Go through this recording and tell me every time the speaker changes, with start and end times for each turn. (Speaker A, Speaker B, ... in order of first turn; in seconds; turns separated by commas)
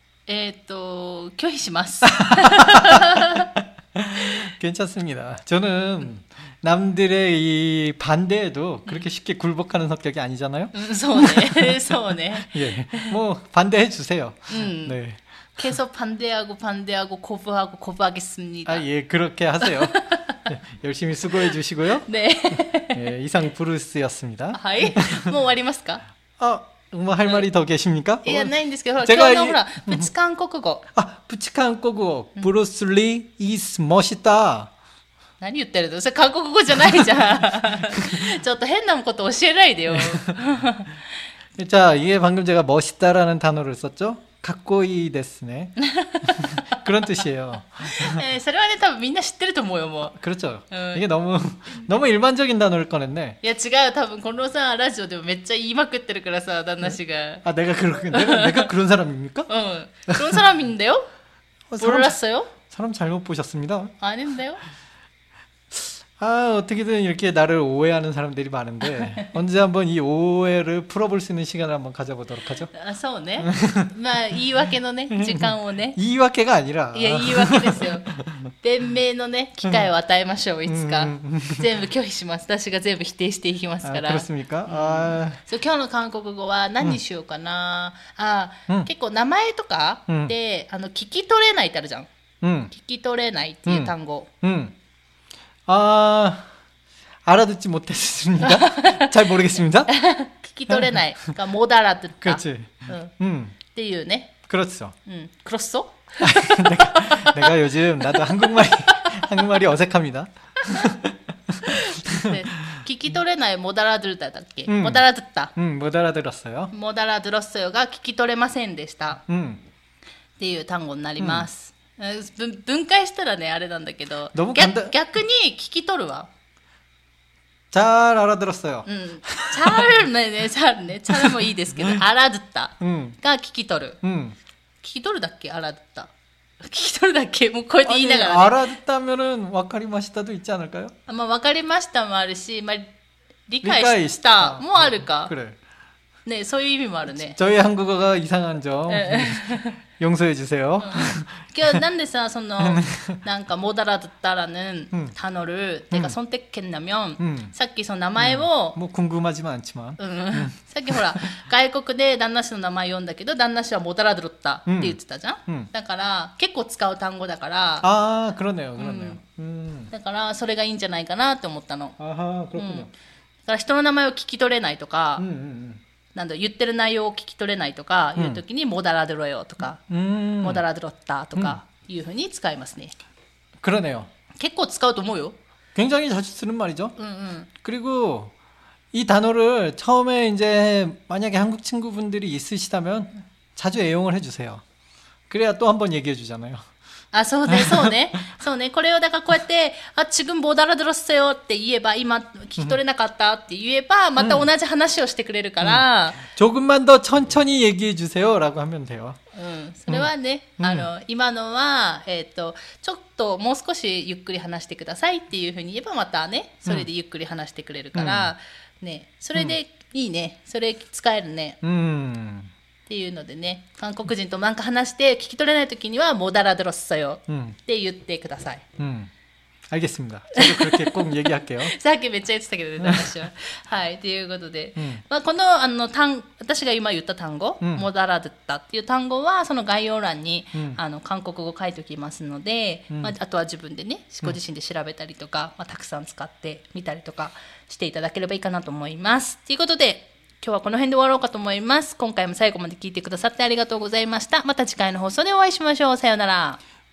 Speaker A: 0.3-3.5, Speaker B: 2.1-15.2, Speaker A: 10.7-13.2, Speaker A: 14.5-15.0, Speaker A: 15.6-18.9, Speaker B: 18.7-22.1, Speaker A: 19.6-20.5, Speaker A: 22.0-23.1, Speaker B: 22.9-25.3, Speaker A: 24.5-26.0, Speaker B: 26.4-30.1, Speaker A: 28.2-30.8, Speaker B: 30.9-34.7, Speaker A: 35.4-41.0, Speaker B: 37.9-38.3, Speaker B: 39.9-40.4, Speaker B: 41.6-45.8, Speaker A: 45.8-46.8, Speaker B: 46.3-48.2, Speaker A: 47.8-50.2, Speaker B: 50.1-53.4, Speaker A: 50.7-51.0, Speaker A: 53.4-57.5, Speaker B: 57.4-59.5, Speaker A: 58.1-58.7, Speaker A: 59.5-61.1, Speaker B: 60.1-60.4, Speaker B: 61.7-63.9, Speaker A: 61.8-62.5, Speaker A: 64.0-64.6, Speaker B: 65.7-72.7, Speaker A: 68.9-69.3, Speaker A: 72.7-76.0, Speaker B: 73.4-73.9, Speaker B: 75.1-78.5, Speaker A: 76.9-78.1, Speaker A: 78.6-92.1, Speaker B: 79.6-79.9, Speaker B: 80.7-81.7, Speaker B: 83.8-85.4, Speaker B: 90.1-90.3, Speaker B: 92.4-92.7, Speaker A: 92.7-94.3, Speaker B: 93.7-94.7, Speaker B: 95.7-96.5, Speaker B: 97.3-99.9, Speaker A: 98.4-103.1, Speaker B: 100.7-101.0, Speaker B: 102.2-103.6, Speaker A: 103.7-104.4, Speaker B: 104.5-105.0, Speaker A: 105.1-109.5, Speaker B: 106.2-112.8, Speaker A: 110.6-111.0, Speaker A: 111.6-115.5, Speaker B: 114.7-115.0, Speaker B: 115.6-116.7, Speaker A: 116.7-119.2, Speaker B: 119.3-119.6, Speaker A: 120.4-126.3, Speaker B: 121.2-121.5, Speaker B: 124.3-125.0, Speaker B: 127.7-130.0, Speaker A: 128.9-134.0, Speaker B: 131.1-132.0, Speaker B: 132.8-133.2, Speaker B: 134.0-134.4, Speaker A: 134.8-138.6, Speaker B: 137.8-140.9, Speaker A: 141.1-142.9, Speaker A: 143.5-145.3, Speaker B: 143.6-145.6, Speaker A: 146.2-147.4, Speaker B: 147.1-151.8, Speaker A: 148.9-149.8, Speaker A: 150.8-158.8, Speaker B: 152.6-153.2, Speaker B: 157.2-157.5, Speaker B: 158.2-161.2, Speaker A: 160.0-167.9, Speaker B: 164.7-165.7, Speaker B: 167.8-169.9, Speaker A: 168.8-169.2, Speaker A: 169.9-172.0, Speaker B: 172.0-172.9, Speaker A: 172.6-172.9, Speaker A: 173.5-175.2, Speaker B: 175.2-175.8, Speaker A: 176.2-179.8, Speaker B: 178.2-178.4, Speaker B: 179.6-180.6, Speaker A: 180.4-182.9, Speaker B: 183.6-184.1, Speaker A: 184.4-185.4, Speaker B: 185.8-187.0, Speaker A: 187.0-187.5, Speaker B: 187.6-188.3, Speaker B: 188.9-194.6, Speaker B: 195.3-196.6, Speaker A: 197.1-206.2, Speaker B: 197.5-197.9, Speaker B: 204.2-204.5, Speaker B: 205.6-209.2, Speaker A: 209.3-221.6, Speaker B: 209.9-210.9, Speaker B: 217.9-218.3, Speaker B: 221.6-222.5, Speaker A: 222.9-228.6, Speaker B: 227.3-227.6, Speaker B: 228.8-229.1, Speaker B: 229.7-231.8, Speaker A: 230.3-256.6, Speaker B: 232.8-233.2, Speaker B: 237.6-237.9